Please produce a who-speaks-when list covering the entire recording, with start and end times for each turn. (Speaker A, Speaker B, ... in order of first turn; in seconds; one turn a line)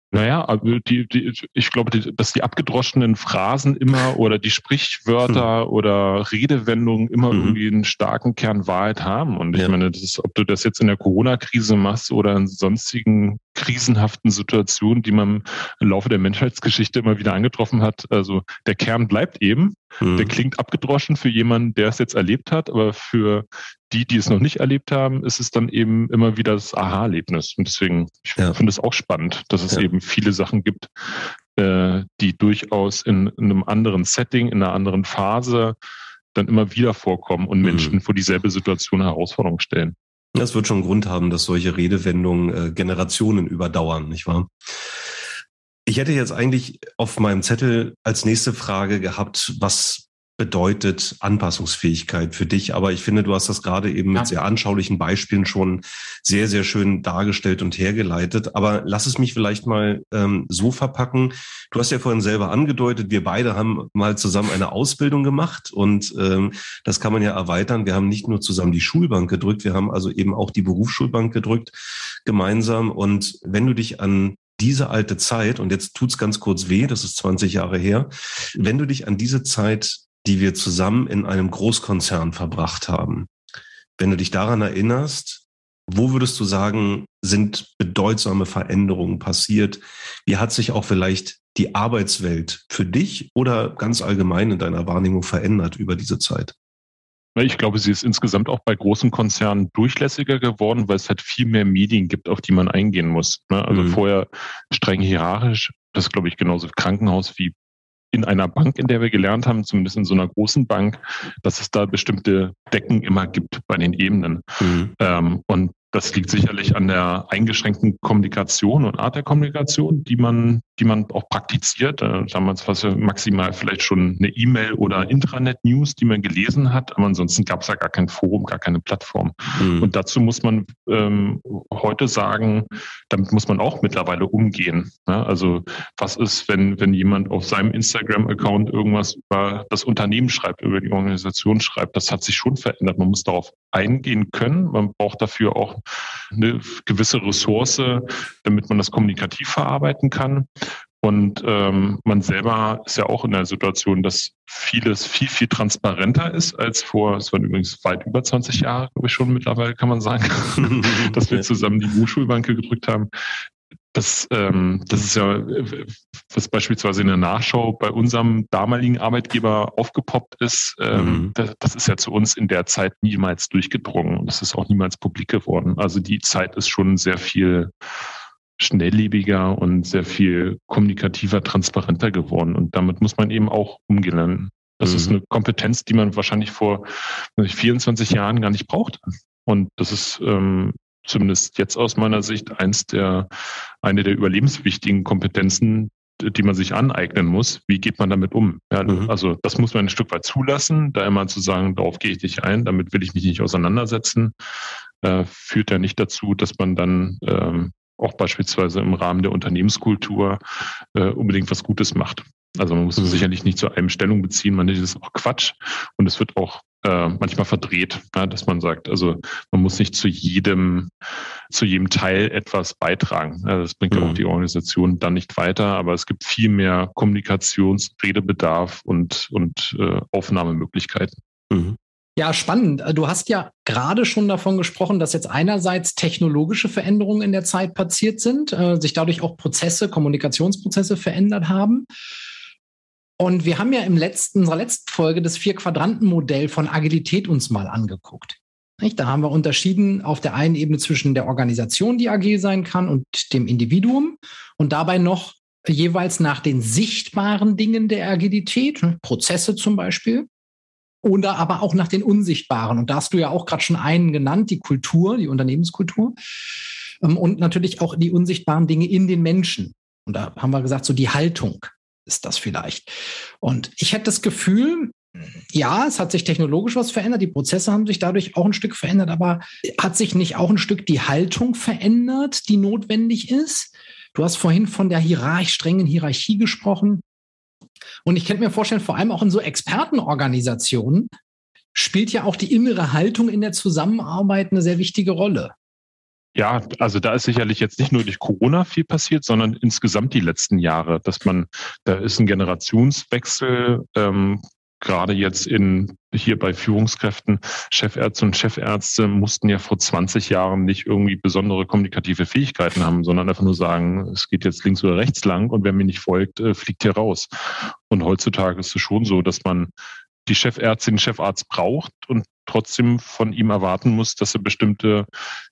Speaker A: 0.1-30.9
Speaker B: 7.3-7.6
Speaker B: 20.0-20.3
Speaker A: 31.6-35.7
Speaker A: 36.3-39.9
Speaker B: 37.6-38.0
Speaker B: 40.4-44.5
Speaker B: 45.9-83.3
Speaker B: 84.0-96.5
Speaker A: 97.3-107.5
Speaker B: 103.7-104.0
Speaker A: 108.1-114.4
Speaker B: 114.6-114.9
Speaker A: 115.0-150.5
Speaker B: 129.6-129.9
Speaker A: 151.0-163.1
Speaker B: 160.6-161.4
Speaker A: 163.9-177.7
Speaker B: 170.9-171.3
Speaker A: 178.6-193.3
Speaker B: 184.8-185.1
Speaker A: 193.8-204.3
Speaker B: 198.9-199.1
Speaker A: 205.0-210.4
Speaker A: 210.9-220.9
Speaker B: 213.0-213.2
Speaker A: 221.5-231.2
Speaker B: 223.9-224.2
Speaker B: 231.5-231.8
Speaker C: 232.2-241.8
Speaker C: 243.2-260.3
Speaker C: 261.0-266.1
Speaker C: 267.0-287.0
Speaker C: 288.0-291.1
Speaker C: 291.7-295.5
Speaker A: 296.4-319.7
Speaker A: 320.2-325.1